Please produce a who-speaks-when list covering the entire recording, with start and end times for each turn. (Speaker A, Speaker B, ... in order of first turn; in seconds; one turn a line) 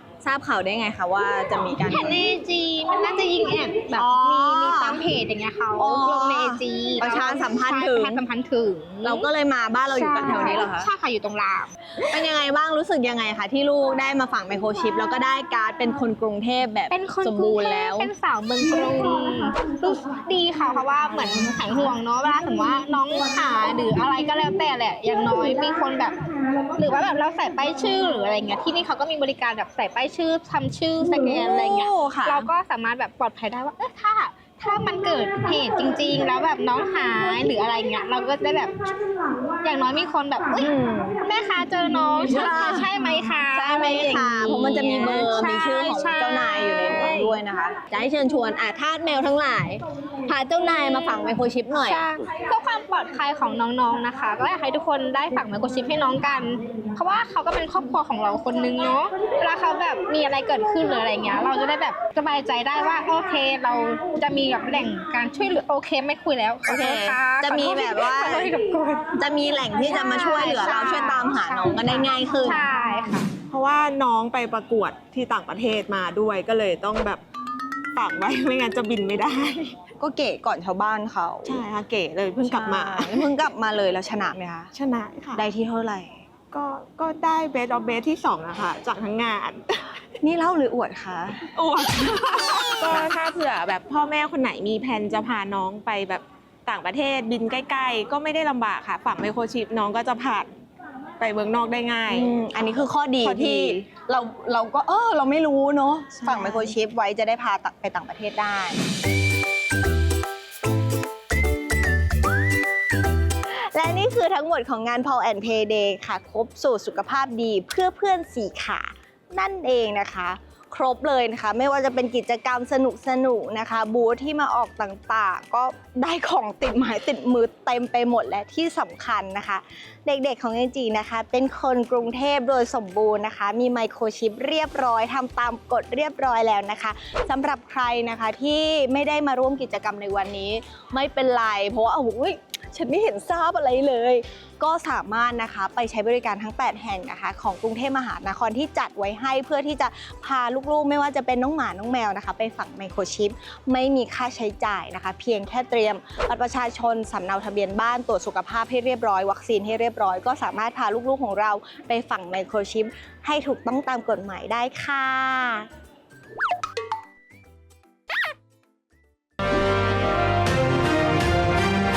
Speaker A: 0.2-2.2
Speaker B: 1.8-9.3
Speaker A: 3.9-5.0
Speaker A: 5.8-8.2
Speaker A: 9.0-10.9
Speaker B: 9.9-11.7
Speaker A: 12.1-18.1
Speaker B: 16.9-26.2
Speaker B: 26.7-38.9
Speaker A: 31.2-32.5
Speaker B: 39.6-47.4
Speaker A: 40.5-41.2
Speaker A: 42.3-42.9
Speaker A: 43.5-52.0
Speaker B: 51.7-69.1
Speaker A: 66.7-68.5
Speaker A: 69.2-72.6
Speaker B: 69.7-73.3
Speaker C: 73.4-77.2
Speaker C: 77.9-79.7
Speaker A: 80.0-81.6
Speaker C: 81.4-83.3
Speaker A: 82.4-84.7
Speaker C: 84.7-85.5
Speaker A: 85.3-86.1
Speaker C: 86.5-89.8
Speaker A: 90.2-91.5
Speaker C: 91.5-100.5
Speaker C: 101.2-102.4
Speaker A: 102.1-108.8
Speaker C: 103.2-103.9
Speaker C: 106.2-106.7
Speaker A: 113.5-165.7